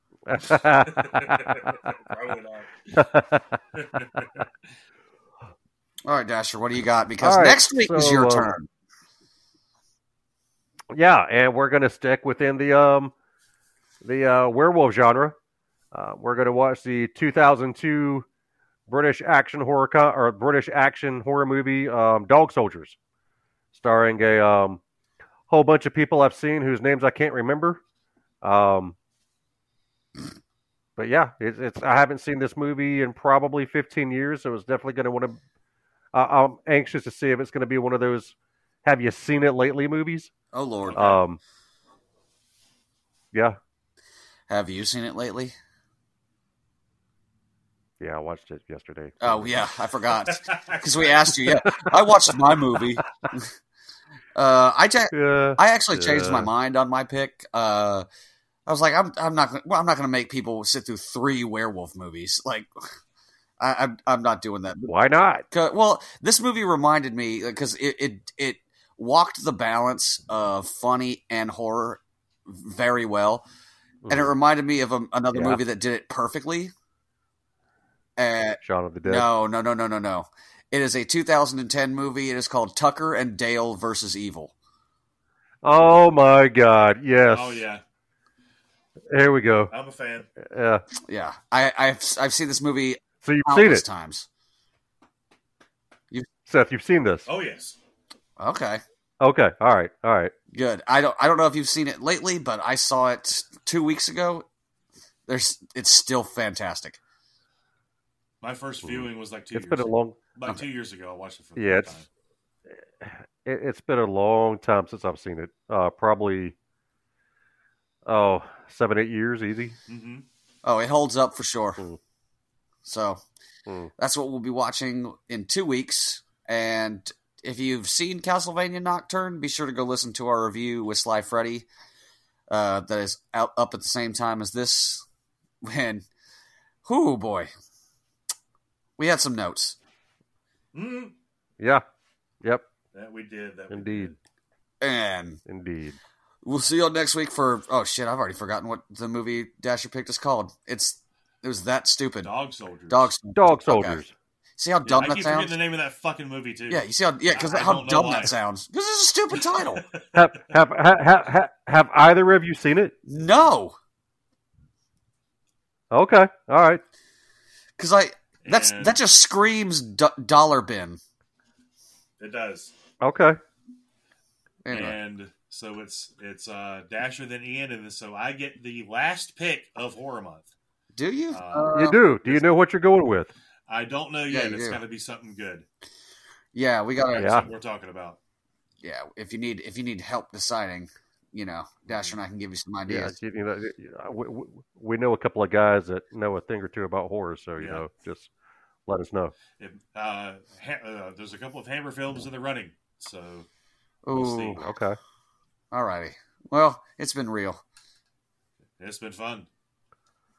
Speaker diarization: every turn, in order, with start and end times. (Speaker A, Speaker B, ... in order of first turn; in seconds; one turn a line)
Speaker A: 0.3-1.8
Speaker B: 0.8-3.1
Speaker A: 2.9-3.6
Speaker B: 3.7-4.5
Speaker C: 6.0-8.7
Speaker A: 7.2-8.5
Speaker A: 10.9-13.1
Speaker A: 14.0-15.3
Speaker A: 15.9-18.2
Speaker A: 18.9-23.0
Speaker A: 23.7-24.8
Speaker A: 25.5-27.8
Speaker A: 28.4-28.9
Speaker A: 31.0-35.4
Speaker A: 36.1-38.3
Speaker A: 38.9-40.3
Speaker C: 40.5-41.0
Speaker B: 40.8-41.2
Speaker A: 41.0-41.4
Speaker C: 44.5-45.5
Speaker A: 48.0-49.6
Speaker C: 49.2-53.5
Speaker B: 50.4-51.2
Speaker A: 51.6-52.0
Speaker C: 54.4-58.0
Speaker A: 55.1-56.5
Speaker C: 58.7-62.7
Speaker C: 63.6-64.9
Speaker A: 64.9-65.5
Speaker C: 65.5-73.5
Speaker A: 74.0-74.3
Speaker C: 74.1-76.7
Speaker A: 75.3-75.6
Speaker C: 78.2-84.5
Speaker A: 78.6-79.3
Speaker A: 85.6-87.6
Speaker B: 87.2-87.8
Speaker A: 89.1-89.7
Speaker B: 89.7-90.3
Speaker A: 90.4-90.8
Speaker C: 91.0-94.3
Speaker A: 93.2-93.8
Speaker A: 96.5-97.3
Speaker B: 97.3-97.8
Speaker C: 98.4-98.8
Speaker A: 99.2-100.3
Speaker C: 100.5-104.5
Speaker C: 105.3-107.0
Speaker B: 108.4-112.1
Speaker A: 108.8-110.2
Speaker A: 111.6-112.0
Speaker A: 113.0-116.5
Speaker A: 118.1-119.8
Speaker B: 119.9-120.3
Speaker C: 120.6-121.8
Speaker C: 122.8-123.2
Speaker C: 124.0-131.7
Speaker C: 132.5-135.1
Speaker C: 135.6-136.1
Speaker C: 136.8-137.5
Speaker C: 139.0-139.8
Speaker B: 140.7-141.2
Speaker B: 142.9-144.2
Speaker A: 143.7-144.1
Speaker C: 144.8-145.4
Speaker A: 145.5-146.0
Speaker C: 146.4-152.3
Speaker B: 152.2-153.1
Speaker C: 152.9-154.0
Speaker A: 153.3-154.1
Speaker C: 154.6-155.5
Speaker B: 154.8-158.3
Speaker C: 156.7-159.8
Speaker B: 159.3-160.4
Speaker A: 160.2-162.9
Speaker C: 163.1-163.8
Speaker A: 165.9-166.8
Speaker C: 167.8-171.0
Speaker B: 168.4-169.0
Speaker B: 172.2-172.7
Speaker A: 173.0-173.4
Speaker C: 174.7-175.0
Speaker B: 174.7-180.5
Speaker C: 180.9-182.0
Speaker B: 181.3-182.5
Speaker A: 181.7-183.3
Speaker B: 183.7-185.7
Speaker C: 184.3-184.8
Speaker C: 186.5-187.5
Speaker B: 187.1-188.2
Speaker A: 187.2-187.5
Speaker C: 188.8-193.2
Speaker A: 192.9-198.3
Speaker B: 197.6-197.8
Speaker A: 198.9-199.3
Speaker B: 199.6-203.5
Speaker C: 204.1-204.7
Speaker B: 204.2-204.6
Speaker A: 204.2-205.0
Speaker C: 205.7-207.6
Speaker B: 208.8-209.5